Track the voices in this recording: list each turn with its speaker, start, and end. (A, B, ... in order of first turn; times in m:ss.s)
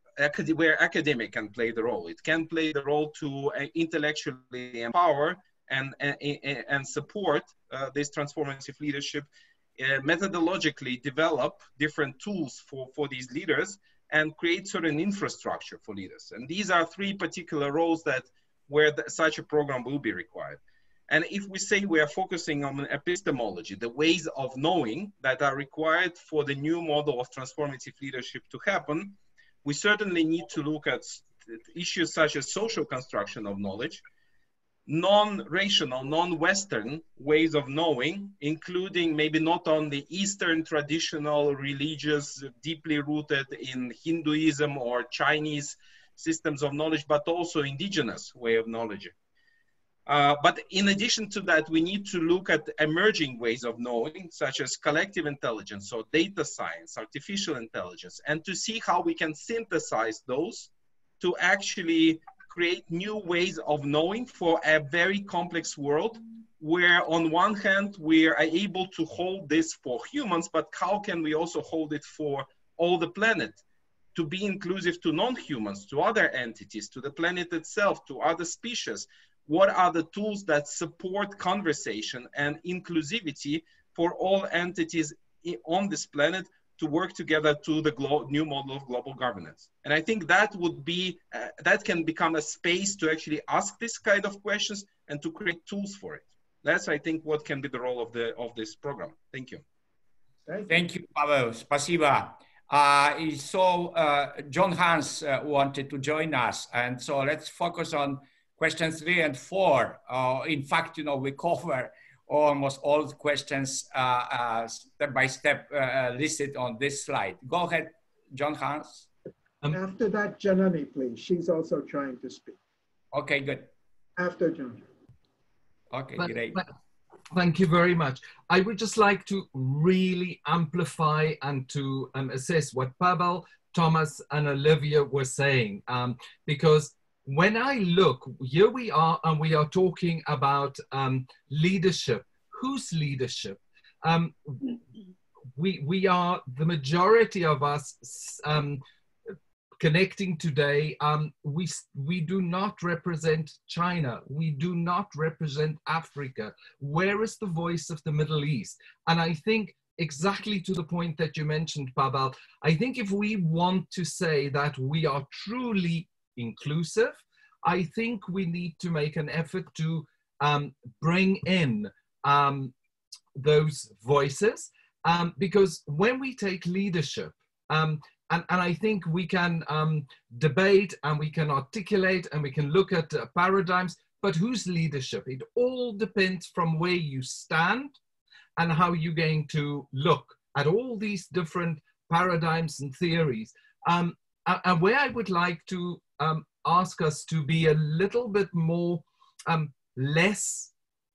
0:00.2-0:34.0 A
0:34.9-0:49.1 A
0:50.1-1:13.6 A
1:14.1-1:39.6 A
1:40.5-1:40.7 B
1:40.7-1:59.0 C
1:59.7-2:02.6 B
2:03.1-2:03.7 C
2:04.2-2:04.8 B
2:05.9-2:06.6 C
2:06.2-2:06.7 D
2:07.3-2:24.8 D
2:25.6-2:28.8 D
2:29.8-2:52.7 D
2:53.3-3:08.0 D
3:08.6-3:20.7 D